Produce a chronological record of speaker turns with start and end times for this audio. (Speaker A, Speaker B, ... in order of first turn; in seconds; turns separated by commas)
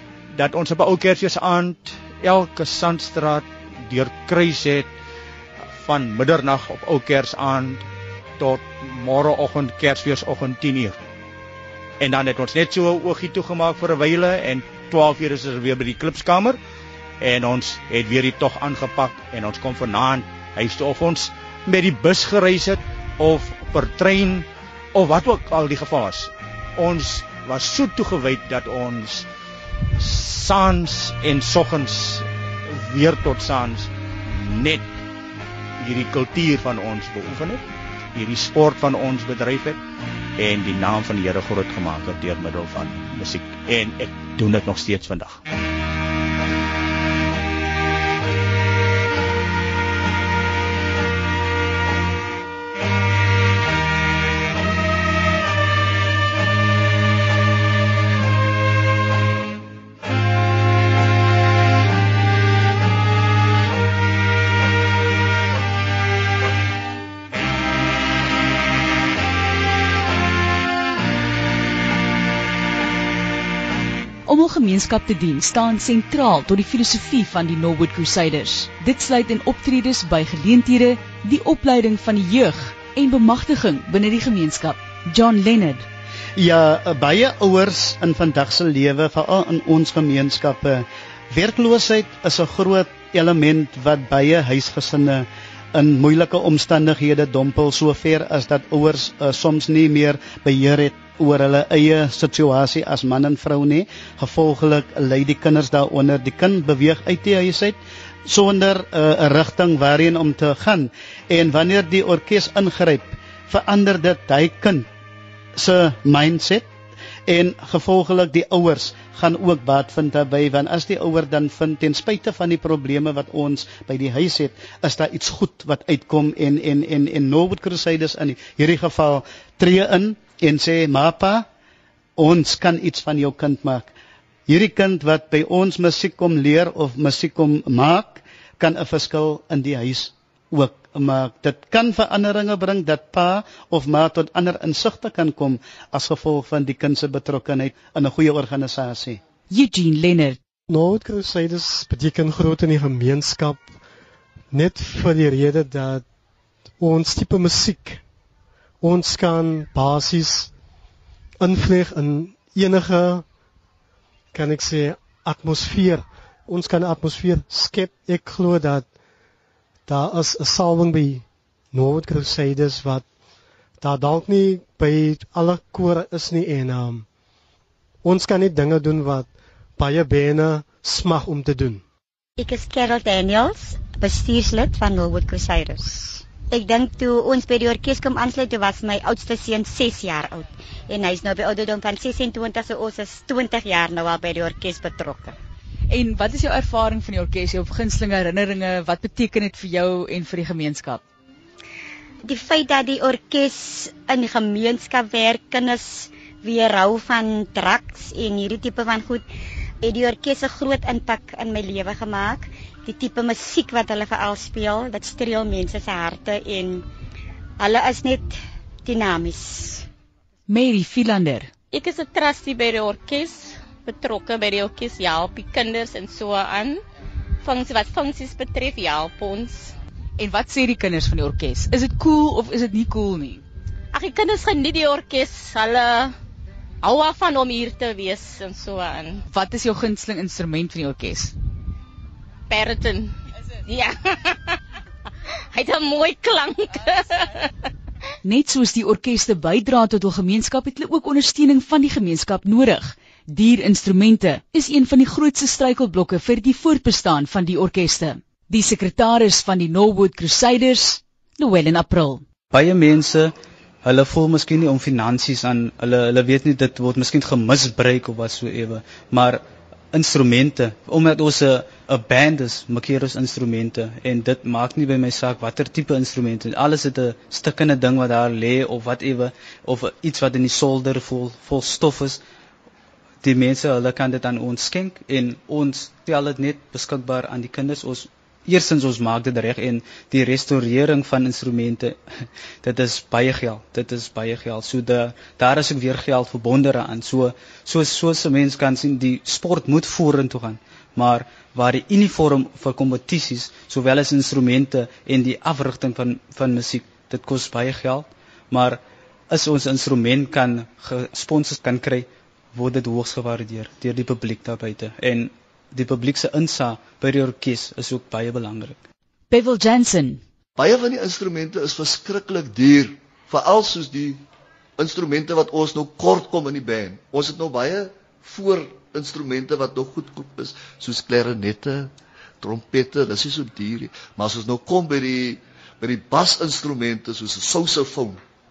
Speaker A: 0.3-4.9, Speaker A: 5.8-7.8, Speaker A: 8.4-11.0, Speaker A: 12.0-16.6, Speaker A: 17.2-29.3, Speaker A: 30.0-34.9, Speaker A: 35.8-37.6, Speaker A: 38.1-39.8, Speaker A: 40.4-45.4, Speaker B: 74.3-85.9, Speaker C: 86.4-114.9, Speaker C: 115.6-116.7, Speaker C: 117.3-131.5, Speaker C: 132.2-133.9, Speaker C: 134.5-149.2, Speaker B: 149.5-150.4, Speaker D: 150.7-153.7, Speaker D: 154.5-156.1, Speaker D: 156.8-158.0, Speaker D: 158.8-160.5, Speaker D: 161.4-163.3, Speaker D: 164.3-168.9, Speaker D: 169.9-173.1, Speaker D: 173.8-177.1, Speaker D: 178.0-181.8, Speaker E: 182.4-195.4, Speaker B: 195.9-201.0, Speaker E: 202.2-209.2, Speaker E: 209.8-216.8, Speaker E: 217.6-219.9, Speaker B: 220.5-221.5, Speaker F: 221.7-226.8, Speaker F: 227.4-229.8, Speaker B: 230.2-233.4, Speaker F: 233.9-236.2, Speaker F: 236.8-239.2, Speaker B: 239.3-241.3, Speaker F: 242.5-244.6, Speaker F: 245.5-247.5, Speaker B: 248.2-262.2, Speaker G: 262.5-282.2, Speaker G: 283.2-292.0, Speaker G: 292.6-318.8, Speaker B: 319.3-320.2, Speaker H: 320.6-324.2, Speaker H: 324.8-338.2